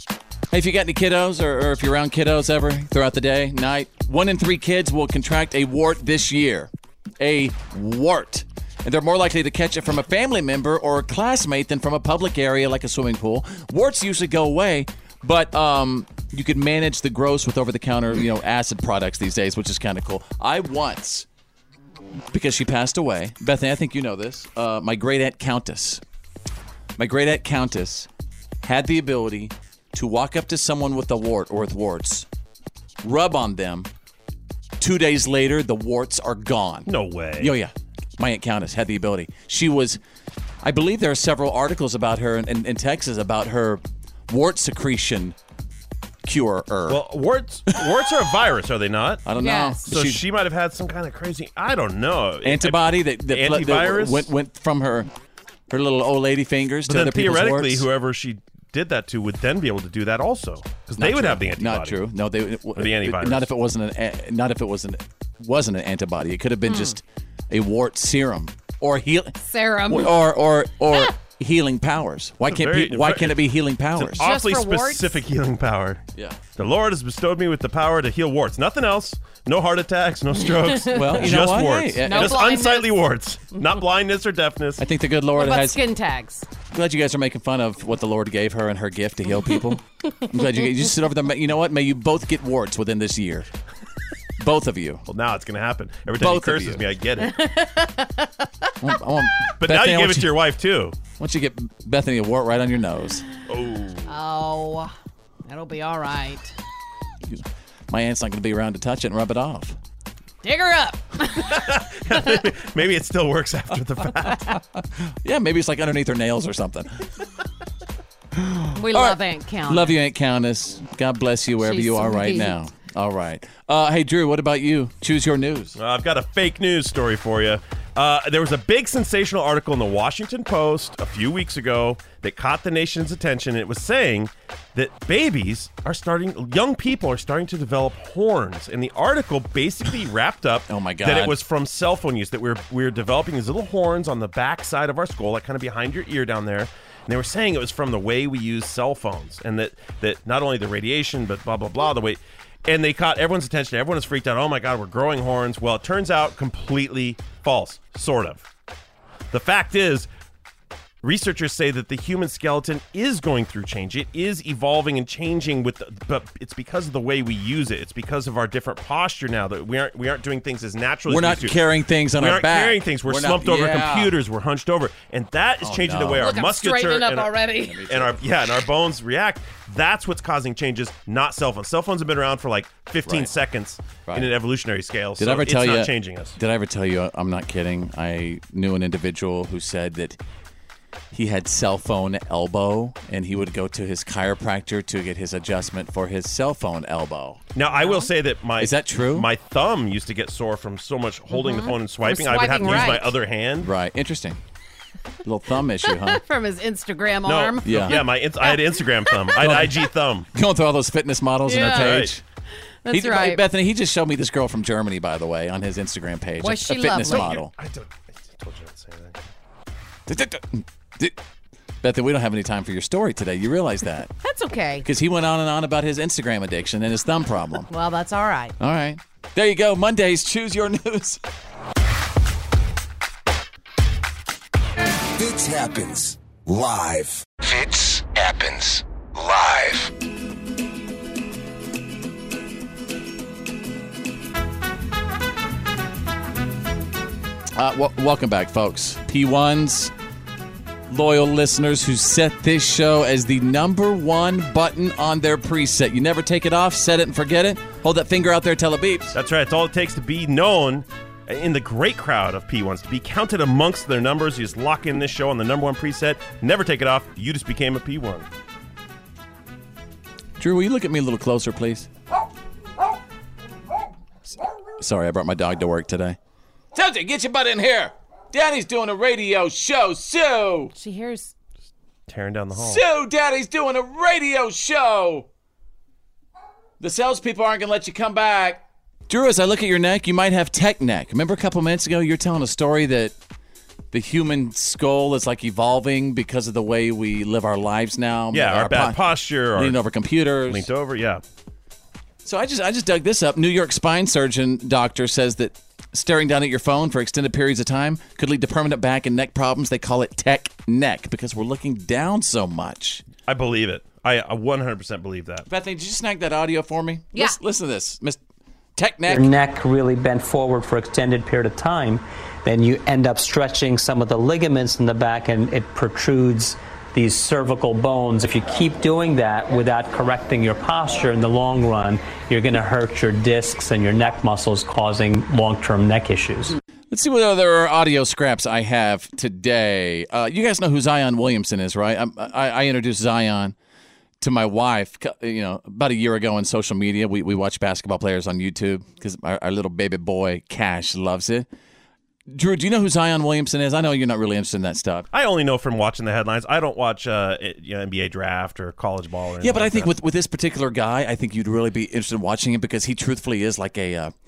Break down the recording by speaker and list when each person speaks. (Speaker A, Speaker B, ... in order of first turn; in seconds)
Speaker A: 0.5-21.3, 22.3-26.0, 27.0-28.1, 28.6-32.3, 33.0-33.9, 34.8-40.0, 40.6-45.4, 46.2-47.0, 49.2-50.2, 52.4-55.1, 55.7-57.9, 61.0-69.3, 69.9-74.3, 80.9-82.4, 84.8-85.8, 86.7-93.5, 94.4-95.0, 96.2-96.8, 98.8-100.3, 101.2-103.2, 107.2-109.8, 115.0-117.0, 118.3-125.8, 140.7-141.3, 171.1-174.2, 175.6-176.4, 177.6-178.3, 183.1-183.3, 185.2-190.2, 191.1-197.4, 198.6-199.3, 203.6-204.4, 205.2-206.2, 207.6-208.0, 209.4-209.8, 210.3-212.2, 212.9-217.5, 220.1-221.2, 221.8-224.1, 224.8-227.7, 228.6-231.2, 247.6-249.9, 250.9-259.2, 270.4-271.9, 274.3-276.2, 276.7-280.7, 282.5-285.3, 286.8-293.1, 293.9-299.0, 299.6-300.7, 302.2-313.0, 315.5-318.2, 318.8-319.3, 336.9-343.6, 344.2-351.5, 352.3-355.1, 359.4-364.1
Speaker B: 36.9-37.5, 46.9-49.2, 49.9-54.3, 56.9-62.0, 62.8-63.5, 72.5-73.4, 74.0-76.0, 76.6-84.8, 95.1-97.3, 99.6-101.0, 103.5-104.1, 111.4-114.5, 125.8-158.4, 159.3-160.1, 161.0-171.6, 172.2-177.3, 177.9-186.4, 197.6-203.7, 207.3-210.3, 211.6-212.1, 217.1-219.2, 259.1-268.3, 282.1-282.8, 298.3-299.8, 300.4-301.2, 313.3-315.5, 355.1-359.9
Speaker C: 49.4-49.9, 66.7-67.0, 69.4-70.1, 74.2-75.2, 80.7-81.3, 82.1-82.9, 85.4-86.5, 97.2-98.5, 104.1-104.9, 105.5-106.5, 110.4-112.3, 118.8-120.0, 121.6-122.6, 176.2-177.8, 197.7-198.1, 201.3-203.1, 205.8-208.6, 211.5-212.0, 212.8-213.4, 216.4-217.3, 224.2-224.9, 227.7-228.6, 280.8-281.3
Speaker D: 235.2-237.3
Speaker E: 237.4-239.9
Speaker F: 319.1-336.6